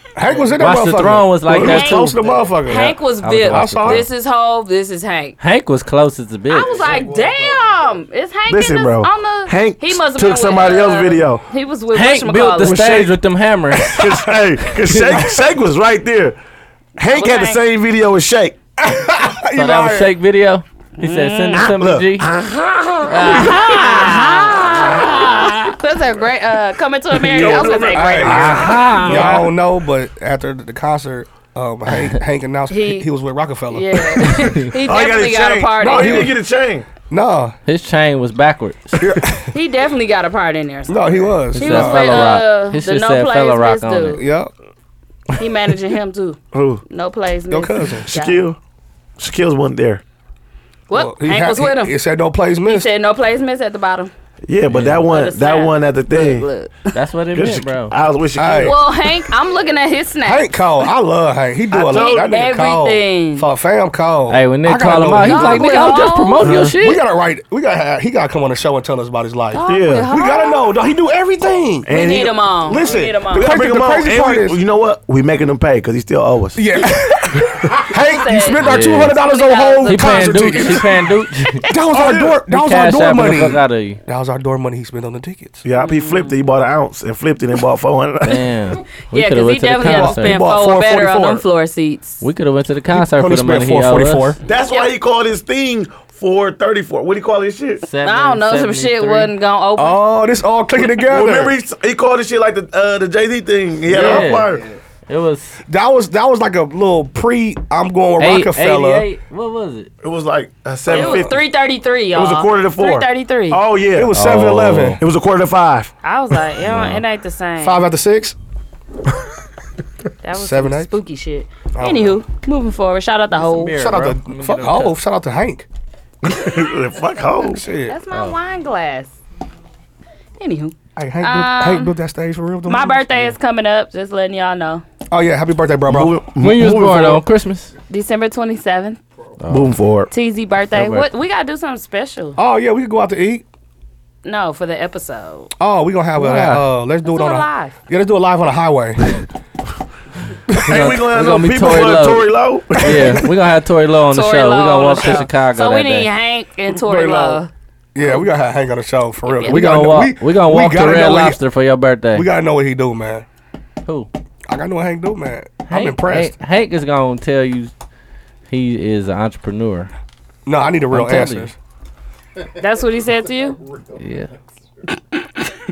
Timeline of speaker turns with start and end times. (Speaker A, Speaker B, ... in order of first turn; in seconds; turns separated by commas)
Speaker A: 0.1-3.0, Speaker B: 0.6-4.0, Speaker C: 1.5-2.4, Speaker D: 1.6-5.3, Speaker A: 3.5-4.0, Speaker B: 5.4-7.0, Speaker D: 6.5-12.8, Speaker C: 8.5-11.4, Speaker B: 11.9-14.1, Speaker C: 12.6-13.2, Speaker C: 13.8-16.4, Speaker B: 14.8-15.2, Speaker C: 17.0-18.6, Speaker D: 17.0-17.6, Speaker A: 18.8-20.1, Speaker B: 19.5-22.3, Speaker D: 21.0-21.7, Speaker C: 21.5-24.2, Speaker B: 23.1-23.8, Speaker D: 23.1-29.4, Speaker C: 27.1-28.8, Speaker A: 27.4-34.5, Speaker B: 28.2-29.5, Speaker D: 32.7-33.1, Speaker D: 33.7-36.3, Speaker B: 34.4-34.7, Speaker C: 34.8-36.9, Speaker A: 35.8-36.4, Speaker A: 37.1-37.5, Speaker B: 37.7-39.0, Speaker D: 39.5-44.2, Speaker A: 40.9-42.3, Speaker B: 41.5-44.2, Speaker A: 44.2-44.5, Speaker D: 45.4-48.4, Speaker C: 46.5-46.8, Speaker A: 47.5-48.1, Speaker C: 48.0-48.6, Speaker C: 49.2-50.0, Speaker D: 50.9-51.9, Speaker A: 50.9-52.9, Speaker D: 52.6-54.1, Speaker C: 54.5-56.5, Speaker B: 54.7-55.0, Speaker D: 55.1-56.9, Speaker B: 56.9-57.9, Speaker C: 57.3-58.9, Speaker A: 58.4-58.8, Speaker D: 58.6-60.6, Speaker A: 60.2-65.8, Speaker C: 61.7-62.5, Speaker D: 61.9-63.5, Speaker B: 64.3-67.0, Speaker D: 65.2-66.5, Speaker C: 66.4-66.8, Speaker A: 66.8-71.9, Speaker D: 69.5-70.6, Speaker C: 69.7-70.1, Speaker C: 71.8-72.3, Speaker D: 71.9-73.6, Speaker A: 72.7-74.6, Speaker C: 73.3-76.9, Speaker A: 76.5-80.8, Speaker D: 77.9-80.8, Speaker B: 78.6-79.2, Speaker B: 79.8-81.7, Speaker A: 81.7-85.6, Speaker C: 81.9-82.4, Speaker B: 82.5-84.0, Speaker C: 85.6-88.5, Speaker D: 85.7-86.3, Speaker B: 88.2-90.4, Speaker D: 89.1-92.2, Speaker A: 89.8-91.4, Speaker B: 92.2-94.3, Speaker A: 92.9-94.4, Speaker C: 94.5-97.8, Speaker D: 94.5-94.9, Speaker B: 97.8-99.3, Speaker D: 98.0-100.0, Speaker A: 99.8-101.5, Speaker C: 100.8-104.6, Speaker A: 103.9-104.2, Speaker B: 103.9-105.6, Speaker A: 105.7-109.0, Speaker B: 108.2-109.9, Speaker C: 110.0-111.3, Speaker D: 110.9-113.6, Speaker A: 110.9-111.2, Speaker C: 112.1-114.2, Speaker A: 113.9-115.0, Speaker B: 114.1-115.0, Speaker C: 115.0-115.9, Speaker D: 116.0-117.8, Speaker B: 116.6-117.0, Speaker A: 117.6-118.3, Speaker D: 120.2-123.8, Speaker A: 120.4-120.9, Speaker A: 121.7-122.2, Speaker B: 123.3-125.0, Speaker A: 123.7-125.7, Speaker C: 126.2-127.6, Speaker A: 127.5-128.0, Speaker D: 127.9-129.1, Speaker D: 130.4-131.9, Speaker A: 130.9-133.1, Speaker D: 132.7-134.8, Speaker A: 135.1-136.2, Speaker C: 135.8-137.2, Speaker B: 136.4-137.7, Speaker D: 137.9-139.0, Speaker B: 139.4-139.7, Speaker C: 139.5-140.1, Speaker D: 140.1-142.4, Speaker B: 140.7-141.1, Speaker A: 142.4-143.4, Speaker D: 144.2-145.5, Speaker A: 145.6-149.2, Speaker B: 146.2-146.6, Speaker D: 147.0-147.8, Speaker A: 150.5-151.0, Speaker C: 150.6-153.2, Speaker B: 150.7-156.1, Speaker A: 152.8-153.1, Speaker D: 154.1-157.5, Speaker C: 156.9-157.4, Speaker A: 157.9-161.4, Speaker D: 159.2-159.6, Speaker B: 159.4-162.3, Speaker A: 162.1-163.2, Speaker A: 164.5-166.3, Speaker B: 165.7-167.7, Speaker B: 168.5-169.9, Speaker A: 170.4-171.5, Speaker B: 170.9-171.5, Speaker D: 172.5-173.6, Speaker B: 173.9-174.3